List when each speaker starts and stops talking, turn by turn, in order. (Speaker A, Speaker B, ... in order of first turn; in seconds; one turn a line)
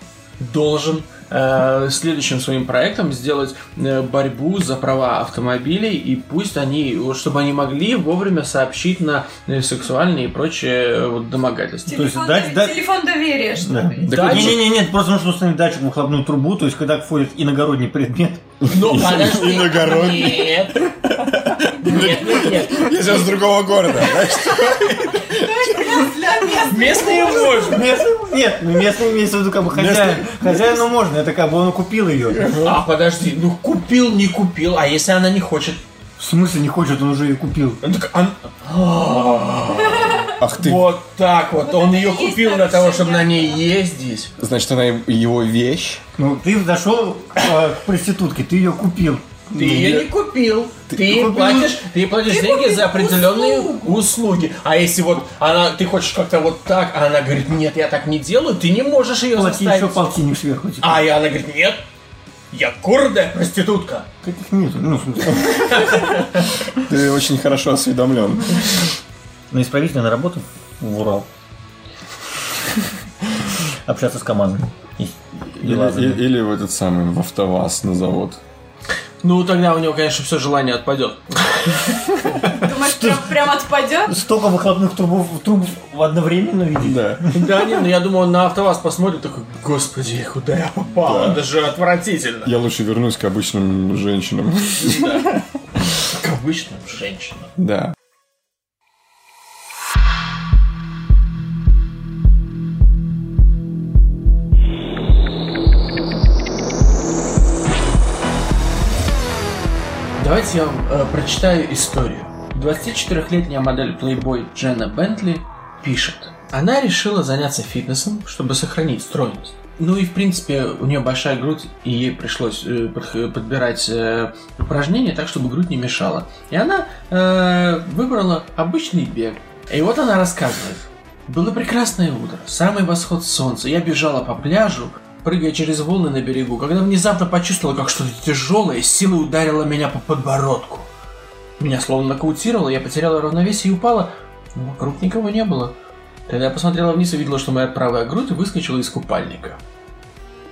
Speaker A: 0.4-12.1
Speaker B: 11.9-14.0
Speaker C: 11.9-12.8
Speaker C: 13.6-18.5
Speaker A: 14.1-14.6
Speaker D: 14.1-14.7
Speaker D: 18.6-26.2
Speaker A: 18.6-21.0
Speaker A: 21.6-23.0
Speaker B: 25.1-27.9
Speaker A: 26.6-27.9
Speaker C: 27.6-32.5
Speaker D: 29.7-30.8
Speaker D: 32.3-32.8
Speaker A: 32.6-35.8
Speaker C: 36.2-37.8
Speaker A: 37.8-44.3
Speaker D: 40.3-40.9
Speaker B: 41.6-43.6
Speaker D: 44.4-46.0
Speaker C: 46.2-50.1
Speaker A: 49.5-60.0
Speaker C: 50.9-51.8
Speaker B: 52.2-53.9
Speaker C: 59.3-61.1
Speaker A: 60.8-61.8
Speaker A: 62.5-64.1
Speaker C: 64.2-66.1
Speaker A: 65.6-66.3
Speaker D: 66.7-68.9
Speaker C: 69.5-71.3
Speaker C: 73.8-76.2
Speaker D: 75.5-78.4
Speaker A: 79.2-82.4
Speaker B: 82.5-84.2
Speaker C: 82.9-83.4
Speaker C: 84.1-87.3
Speaker D: 86.8-87.3
Speaker A: 87.3-92.5
Speaker D: 91.0-91.5
Speaker D: 92.4-95.4
Speaker A: 94.8-95.3
Speaker A: 96.0-97.5
Speaker D: 97.6-97.9
Speaker A: 110.2-140.9
Speaker A: 141.6-145.7
Speaker A: 146.3-149.6